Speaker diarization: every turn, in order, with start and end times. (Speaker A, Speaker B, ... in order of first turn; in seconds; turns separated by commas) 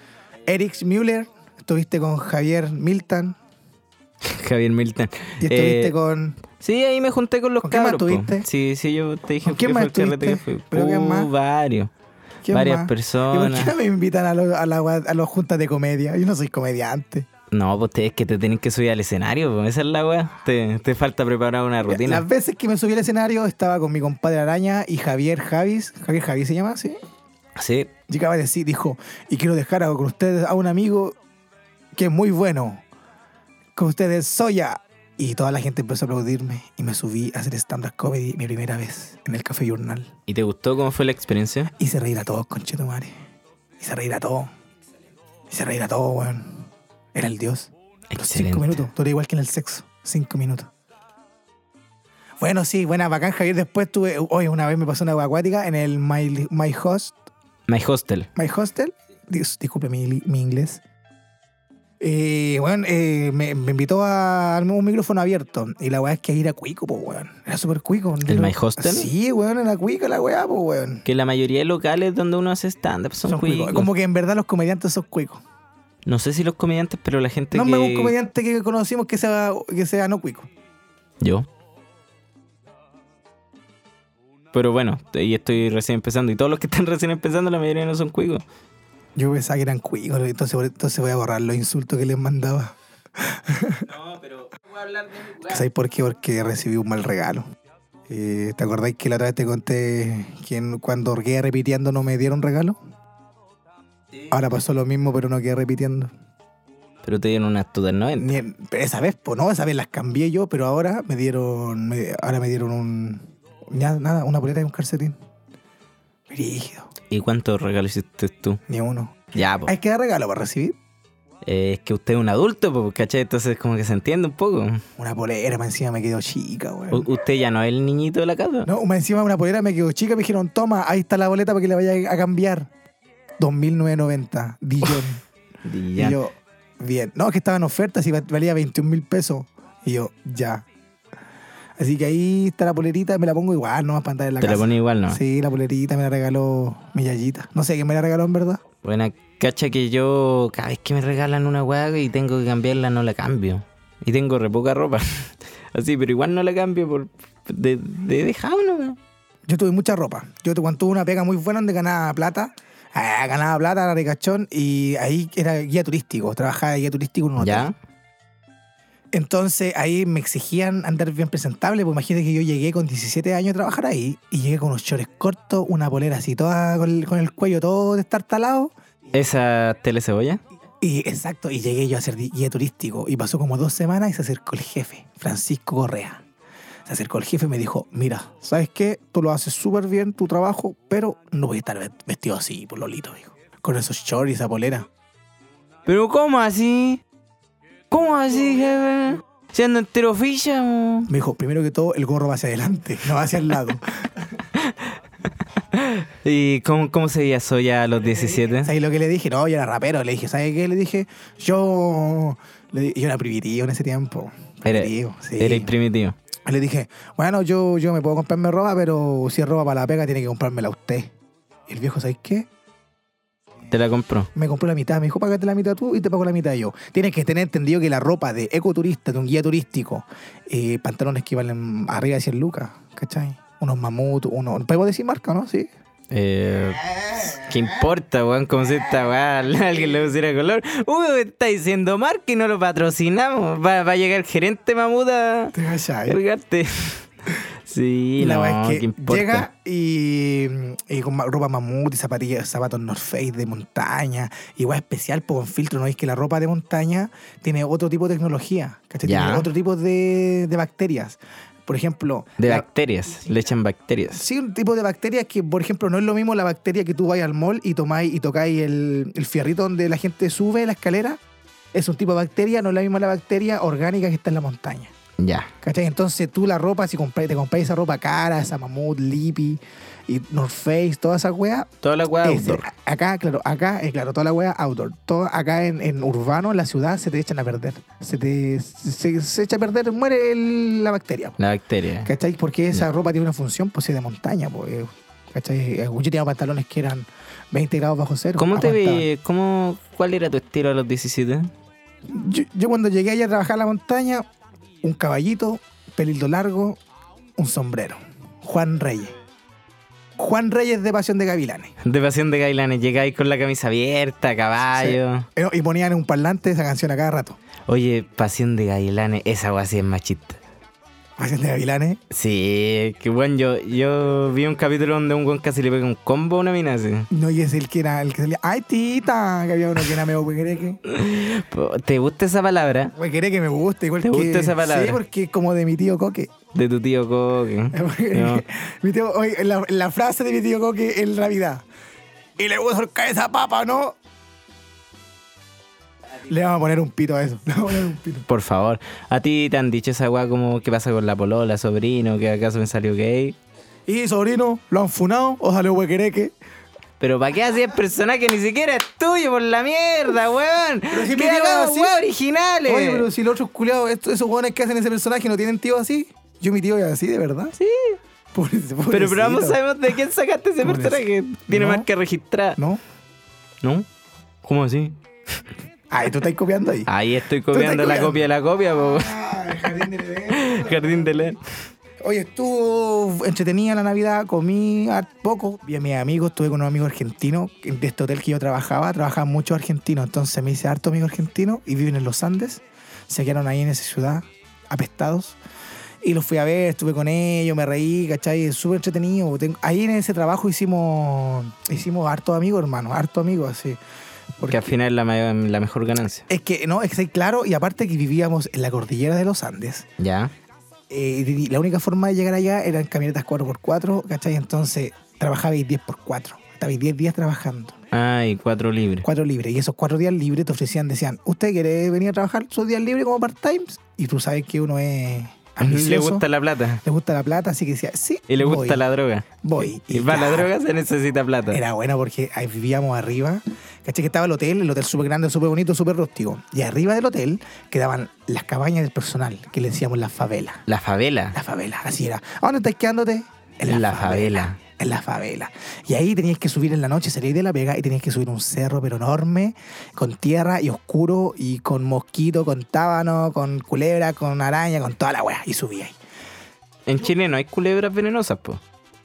Speaker A: 0.5-3.4, Speaker B: 4.2-5.9, Speaker A: 5.4-6.4, Speaker B: 6.6-11.9, Speaker A: 7.6-8.5, Speaker A: 9.4-11.3, Speaker A: 12.4-17.3, Speaker B: 12.5-13.7, Speaker B: 17.5-22.2, Speaker A: 21.9-27.0, Speaker B: 27.6-27.9, Speaker A: 28.1-31.2, Speaker A: 31.9-32.8, Speaker A: 33.8-40.1, Speaker B: 40.3-41.7, Speaker A: 41.8-43.1, Speaker A: 43.8-44.5, Speaker A: 45.5-50.7, Speaker B: 48.1-48.8, Speaker A: 52.4-57.1, Speaker B: 57.7-58.3, Speaker A: 58.4-60.8, Speaker A: 62.0-71.0, Speaker B: 68.2-69.1, Speaker B: 71.0-73.9, Speaker A: 73.2-75.4, Speaker B: 76.0-78.1, Speaker A: 77.5-80.5, Speaker B: 81.2-81.5, Speaker B: 84.5-88.4, Speaker A: 89.2-93.9, Speaker B: 93.9-95.5, Speaker A: 95.4-97.5, Speaker A: 98.1-102.8, Speaker A: 104.3-106.1, Speaker B: 107.0-108.3, Speaker A: 108.2-115.2, Speaker A: 116.3-116.9, Speaker B: 117.1-118.6, Speaker A: 118.7-120.8, Speaker B: 119.3-119.7, Speaker B: 121.4-124.8, Speaker A: 125.0-127.1, Speaker B: 126.9-128.7, Speaker A: 128.6-132.7, Speaker A: 133.4-135.2, Speaker B: 135.6-136.2, Speaker A: 135.9-140.7, Speaker A: 141.8-148.6, Speaker B: 144.4-145.2, Speaker B: 148.8-159.0, Speaker A: 159.4-167.7, Speaker B: 167.4-167.7, Speaker A: 169.1-178.7, Speaker B: 179.1-180.4, Speaker A: 180.8-186.2, Speaker A: 186.8-194.9, Speaker B: 195.8-197.0, Speaker B: 197.9-201.1, Speaker A: 201.1-204.1, Speaker B: 204.5-204.9, Speaker B: 205.7-208.7, Speaker A: 208.4-215.7, Speaker B: 214.6-216.2, Speaker A: 216.4-221.1, Speaker A: 221.7-222.5, Speaker B: 223.7-224.3, Speaker A: 224.3-235.7, Speaker B: 236.1-245.5, Speaker A: 237.0-237.4, Speaker A: 245.5-246.2, Speaker B: 246.1-247.1, Speaker B: 247.7-249.4, Speaker A: 248.2-262.6, Speaker B: 259.0-259.5, Speaker B: 262.4-264.2, Speaker A: 264.1-271.2, Speaker A: 271.7-274.9, Speaker B: 275.2-275.5, Speaker A: 275.6-281.7, Speaker B: 281.8-282.6, Speaker A: 282.2-291.4, Speaker B: 291.4-292.1, Speaker A: 292.0-299.1, Speaker B: 298.4-301.5, Speaker A: 302.1-304.3, Speaker A: 304.8-306.8, Speaker A: 307.4-309.1, Speaker A: 310.2-311.7, Speaker B: 311.8-315.3, Speaker A: 314.7-317.4, Speaker B: 317.7-320.4, Speaker A: 321.2-322.0, Speaker B: 322.1-327.1, Speaker A: 327.1-330.8, Speaker B: 330.9-332.9, Speaker A: 332.9-336.3, Speaker B: 334.0-335.0, Speaker B: 336.5-338.4, Speaker A: 337.7-341.6, Speaker A: 342.4-343.9, Speaker A: 346.3-348.2, Speaker B: 348.3-353.4, Speaker A: 353.9-356.3, Speaker B: 357.0-363.1, Speaker A: 360.9-362.0, Speaker A: 362.6-367.5, Speaker B: 367.6-368.0, Speaker A: 368.3-369.6, Speaker B: 368.9-372.6, Speaker A: 370.6-371.9, Speaker A: 372.6-372.8, Speaker B: 373.6-373.9, Speaker B: 374.4-375.0, Speaker A: 375.9-376.9, Speaker B: 376.9-379.1, Speaker A: 377.5-381.3, Speaker B: 380.3-381.4, Speaker A: 382.0-395.4, Speaker A: 396.0-403.8, Speaker A: 404.4-404.7, Speaker B: 404.5-406.2, Speaker A: 406.3-409.9, Speaker B: 410.0-410.3, Speaker A: 410.9-417.8, Speaker B: 417.9-419.1, Speaker A: 419.0-426.2, Speaker B: 425.6-426.8, Speaker A: 426.8-428.8, Speaker B: 428.3-431.6, Speaker A: 429.4-430.5, Speaker A: 431.5-440.6, Speaker B: 440.7-441.4, Speaker A: 441.3-455.9, Speaker B: 443.6-444.6, Speaker B: 456.9-458.6